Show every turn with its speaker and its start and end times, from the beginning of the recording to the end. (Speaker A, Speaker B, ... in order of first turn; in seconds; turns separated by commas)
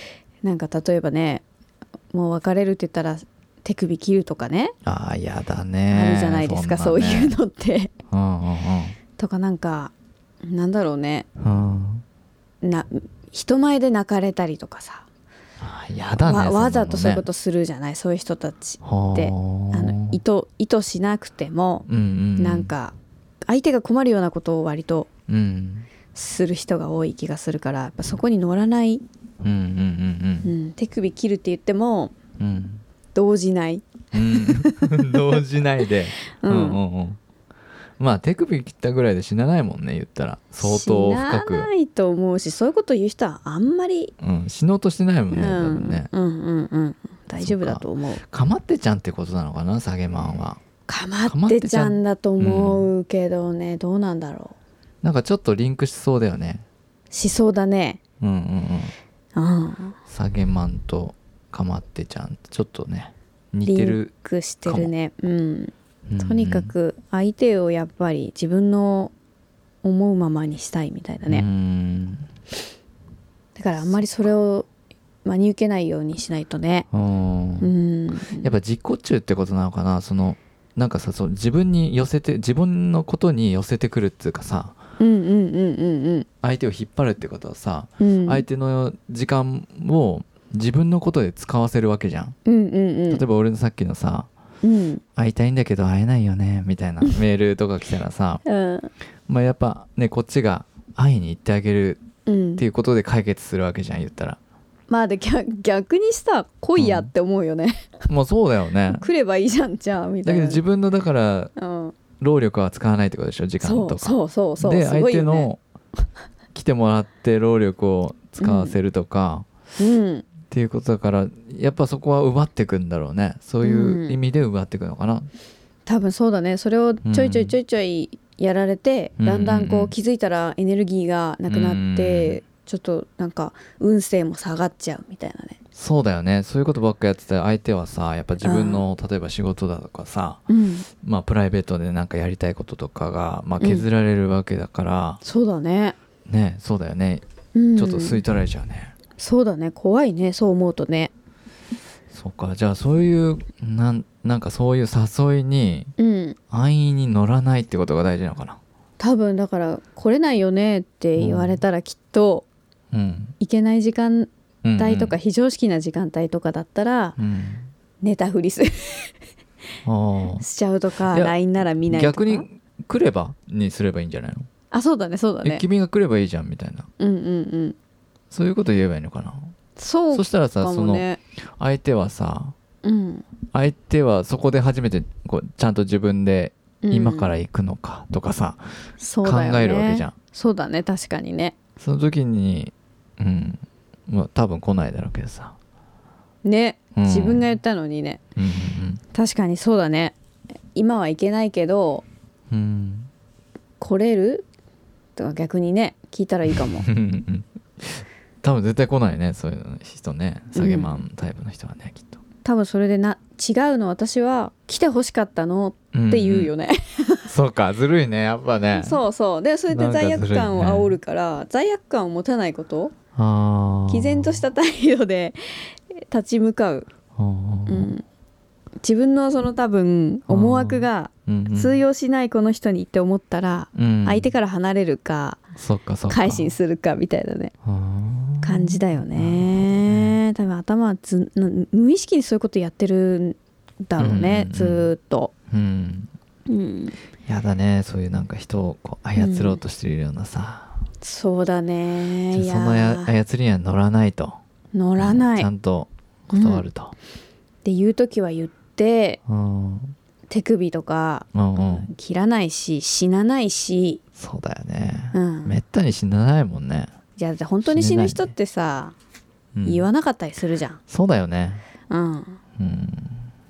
Speaker A: 0.4-1.4, Speaker A: 2.1-4.7, Speaker B: 4.8-7.4, Speaker A: 5.9-7.9, Speaker B: 8.1-9.0, Speaker A: 9.2-11.3, Speaker B: 11.4-12.0, Speaker A: 12.6-15.1, Speaker B: 15.6-17.3, Speaker A: 16.2-21.9, Speaker B: 18.8-20.2, Speaker B: 21.9-22.7, Speaker A: 22.4-22.9, Speaker A: 23.5-25.1, Speaker B: 25.3-25.9, Speaker A: 26.1-29.0, Speaker B: 29.4-30.5, Speaker A: 30.4-32.1, Speaker B: 32.4-32.8, Speaker A: 33.1-35.4, Speaker B: 34.1-37.2, Speaker A: 36.4-36.8, Speaker B: 38.0-41.7, Speaker A: 40.6-44.1, Speaker B: 44.2-46.1, Speaker A: 45.3-48.2, Speaker B: 47.4-50.6, Speaker A: 50.9-54.5, Speaker B: 51.2-52.9, Speaker B: 55.0-56.6, Speaker A: 57.1-58.0, Speaker B: 58.2-58.9, Speaker A: 59.4-60.0, Speaker B: 60.1-64.1, Speaker A: 63.6-69.1, Speaker B: 64.7-64.9, Speaker B: 66.1-66.7, Speaker A: 69.8-71.5, Speaker B: 71.3-72.3, Speaker A: 73.6-74.7, Speaker A: 75.2-76.9, Speaker B: 76.9-77.7, Speaker A: 77.6-78.5, Speaker B: 78.4-84.8, Speaker A: 85.0-86.3, Speaker B: 86.4-92.4, Speaker A: 88.0-88.4, Speaker A: 92.5-93.2, Speaker B: 93.1-94.3, Speaker A: 94.6-95.0, Speaker B: 95.2-98.4, Speaker A: 98.5-98.9, Speaker B: 99.3-102.0, Speaker A: 102.3-102.6, Speaker B: 102.6-104.4, Speaker A: 104.9-107.9, Speaker B: 106.8-107.1, Speaker B: 108.1-109.0, Speaker A: 109.0-110.6, Speaker B: 110.2-111.5, Speaker A: 111.6-112.0, Speaker B: 112.2-115.6, Speaker A: 113.6-115.5, Speaker B: 116.5-119.5, Speaker A: 118.4-118.8, Speaker A: 119.8-120.3, Speaker B: 120.5-125.3, Speaker A: 123.6-124.2, Speaker A: 125.9-135.6, Speaker B: 127.0-127.5, Speaker B: 129.2-129.9, Speaker B: 131.5-132.4, Speaker B: 135.8-140.4, Speaker A: 138.4-138.8, Speaker A: 140.5-140.9, Speaker B: 141.0-145.2, Speaker A: 143.6-143.8, Speaker A: 145.2-146.0, Speaker B: 146.3-147.2, Speaker A: 147.6-148.2, Speaker B: 147.8-148.9, Speaker A: 149.2-151.1, Speaker B: 152.1-155.9, Speaker A: 156.0-156.4, Speaker B: 156.5-158.6, Speaker A: 159.0-162.5, Speaker B: 161.2-161.6, Speaker B: 162.9-163.3, Speaker A: 163.4-167.2, Speaker B: 164.6-165.2, Speaker B: 167.2-167.7, Speaker A: 168.0-169.1, Speaker B: 169.8-170.4, Speaker A: 170.4-172.4, Speaker B: 171.1-171.3, Speaker B: 171.9-174.5, Speaker A: 174.7-175.6, Speaker B: 175.4-176.9, Speaker A: 177.0-177.8, Speaker B: 178.3-179.5, Speaker A: 179.8-181.2, Speaker B: 180.1-181.1, Speaker B: 181.6-182.6, Speaker A: 182.8-183.2, Speaker B: 183.5-188.7, Speaker A: 186.8-187.3, Speaker A: 189.0-191.6, Speaker B: 189.2-190.1, Speaker B: 191.8-195.6, Speaker A: 196.4-198.2, Speaker B: 196.9-197.5, Speaker B: 198.4-199.0, Speaker A: 199.1-200.2, Speaker A: 200.8-202.1, Speaker B: 202.5-203.1, Speaker A: 203.8-204.5, Speaker A: 205.2-206.9, Speaker B: 206.5-212.2, Speaker A: 210.6-211.0, Speaker A: 212.4-217.3, Speaker B: 215.9-216.5, Speaker B: 217.3-219.0, Speaker A: 218.7-222.9, Speaker B: 219.7-221.0, Speaker B: 223.2-224.4, Speaker A: 223.9-226.9, Speaker B: 227.2-227.9, Speaker A: 227.7-228.1, Speaker A: 228.8-235.4, Speaker B: 230.3-231.8, Speaker B: 233.8-234.3, Speaker B: 235.6-236.5, Speaker A: 236.1-237.5, Speaker B: 237.6-240.2, Speaker A: 238.4-245.3, Speaker B: 244.0-244.9, Speaker B: 245.5-246.1, Speaker A: 246.5-247.0, Speaker B: 247.3-250.8, Speaker A: 249.2-249.6, Speaker A: 251.0-253.1, Speaker B: 252.3-254.4, Speaker A: 254.7-255.5, Speaker B: 255.0-256.9, Speaker A: 256.3-256.6, Speaker A: 257.6-259.2, Speaker B: 259.3-259.9, Speaker A: 260.3-264.0, Speaker B: 261.3-261.9, Speaker B: 264.2-266.9, Speaker A: 265.1-265.6, Speaker A: 267.2-268.9, Speaker B: 267.6-268.3, Speaker B: 269.5-269.9, Speaker A: 269.6-270.8, Speaker B: 270.9-271.6, Speaker A: 271.9-272.4, Speaker B: 272.6-273.3